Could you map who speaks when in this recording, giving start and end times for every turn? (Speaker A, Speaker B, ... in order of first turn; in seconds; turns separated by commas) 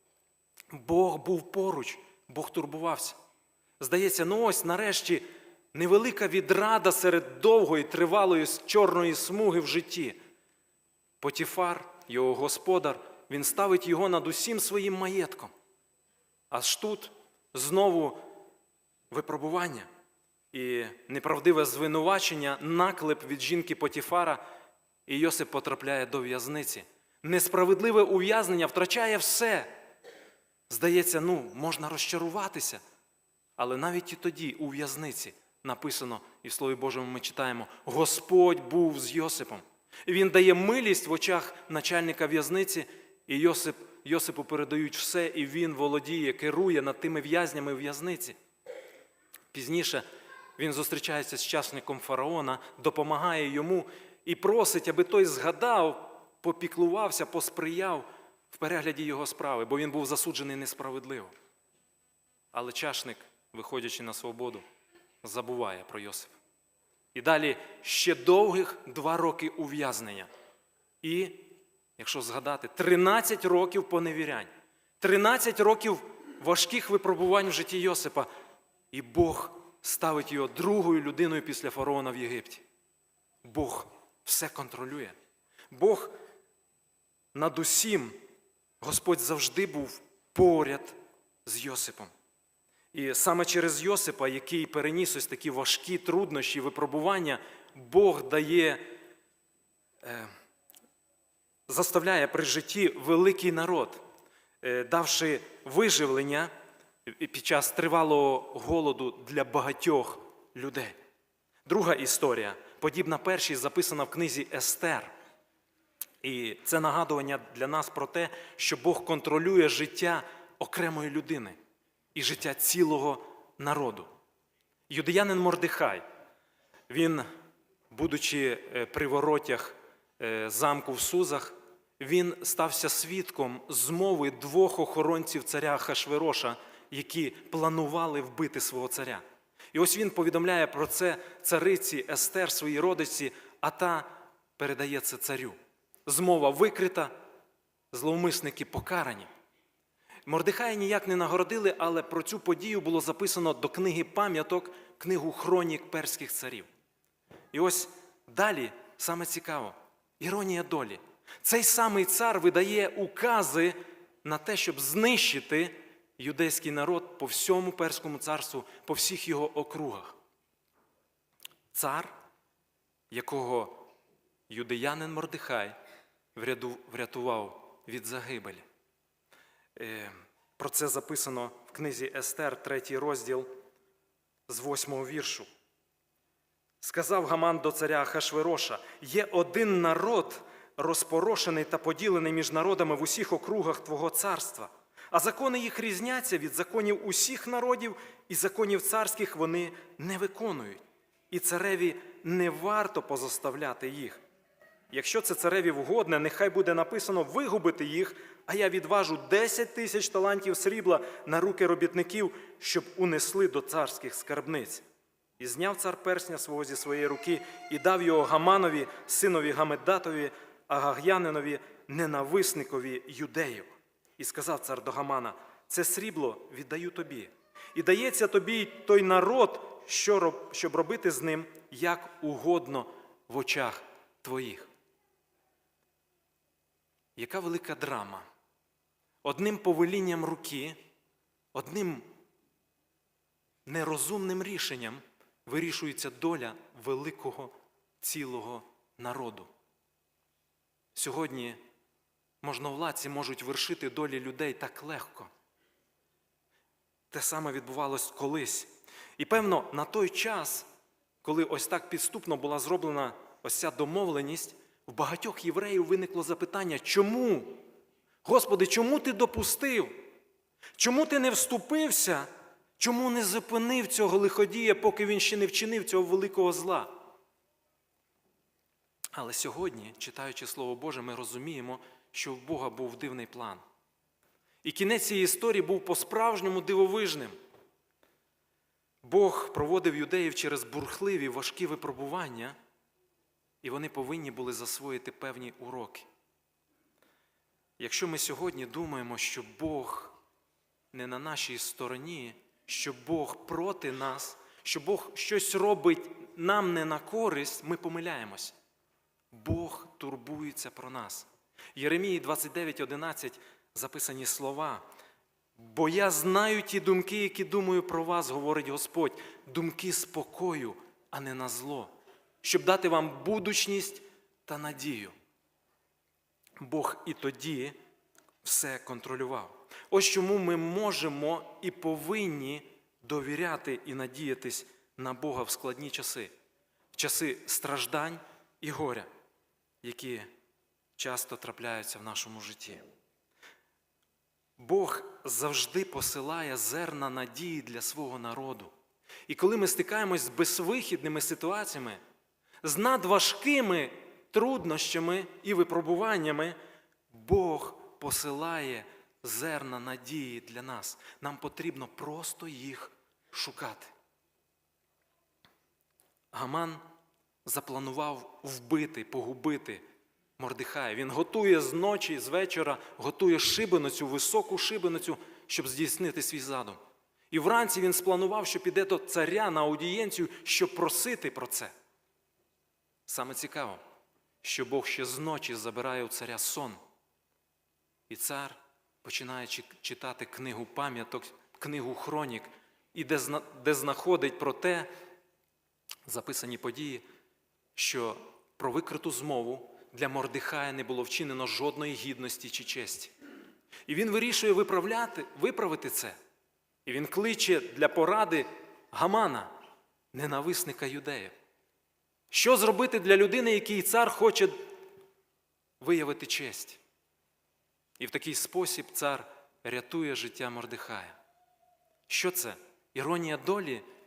Speaker A: 0.7-3.1, Speaker A: 3.8-10.2, Speaker A: 11.2-15.5, Speaker A: 16.5-18.3, Speaker A: 19.1-19.9, Speaker A: 20.5-24.4, Speaker A: 25.1-29.7, Speaker A: 30.7-32.8, Speaker A: 33.6-48.4, Speaker A: 49.5-50.0, Speaker A: 50.6-61.3, Speaker A: 62.5-64.6, Speaker A: 65.2-66.4, Speaker A: 67.1-70.3, Speaker A: 71.0-78.3, Speaker A: 78.9-82.6, Speaker A: 83.4-85.2, Speaker A: 85.7-86.2, Speaker A: 87.3-88.2, Speaker A: 88.8-92.1, Speaker A: 92.9-98.9, Speaker A: 100.0-100.3, Speaker A: 101.7-104.0, Speaker A: 104.6-106.5, Speaker A: 107.0-111.0, Speaker A: 111.7-115.1, Speaker A: 116.2-121.6, Speaker A: 122.1-124.1, Speaker A: 124.9-126.0, Speaker A: 126.9-127.3, Speaker A: 127.9-147.1, Speaker A: 147.9-149.3, Speaker A: 150.3-156.7, Speaker A: 157.5-170.1, Speaker A: 171.7-172.1, Speaker A: 173.1-173.9, Speaker A: 174.5-175.8, Speaker A: 176.3-178.6, Speaker A: 179.8-183.5, Speaker A: 184.5-185.5, Speaker A: 186.8-204.2, Speaker A: 204.9-214.8, Speaker A: 215.4-234.7, Speaker A: 237.2-238.3, Speaker A: 239.2-240.8, Speaker A: 241.5-242.1, Speaker A: 243.7-249.5, Speaker A: 250.9-251.6, Speaker A: 252.4-255.3, Speaker A: 257.1-260.7, Speaker A: 261.2-267.6, Speaker A: 268.2-270.0, Speaker A: 270.8-272.3, Speaker A: 272.8-277.0, Speaker A: 279.1-283.6, Speaker A: 284.6-287.4, Speaker A: 289.0-292.6, Speaker A: 293.6-296.1, Speaker A: 297.8-300.1, Speaker A: 300.9-308.5, Speaker A: 309.3-314.8, Speaker A: 315.6-321.9, Speaker A: 322.4-325.1, Speaker A: 326.6-327.8, Speaker A: 328.4-336.3, Speaker A: 336.9-339.1, Speaker A: 339.8-340.3, Speaker A: 341.0-342.8, Speaker A: 344.6-348.7, Speaker A: 349.3-352.0, Speaker A: 352.6-356.6, Speaker A: 357.1-363.9, Speaker A: 366.3-366.8, Speaker A: 367.4-369.8, Speaker A: 370.4-376.8, Speaker A: 377.3-381.7, Speaker A: 383.1-383.8, Speaker A: 384.4-386.8, Speaker A: 388.1-394.9, Speaker A: 396.1-397.0, Speaker A: 397.7-403.1, Speaker A: 403.9-406.2, Speaker A: 406.9-409.5, Speaker A: 410.1-411.3, Speaker A: 412.3-414.7, Speaker A: 415.8-416.8, Speaker A: 418.0-421.2, Speaker A: 422.1-423.8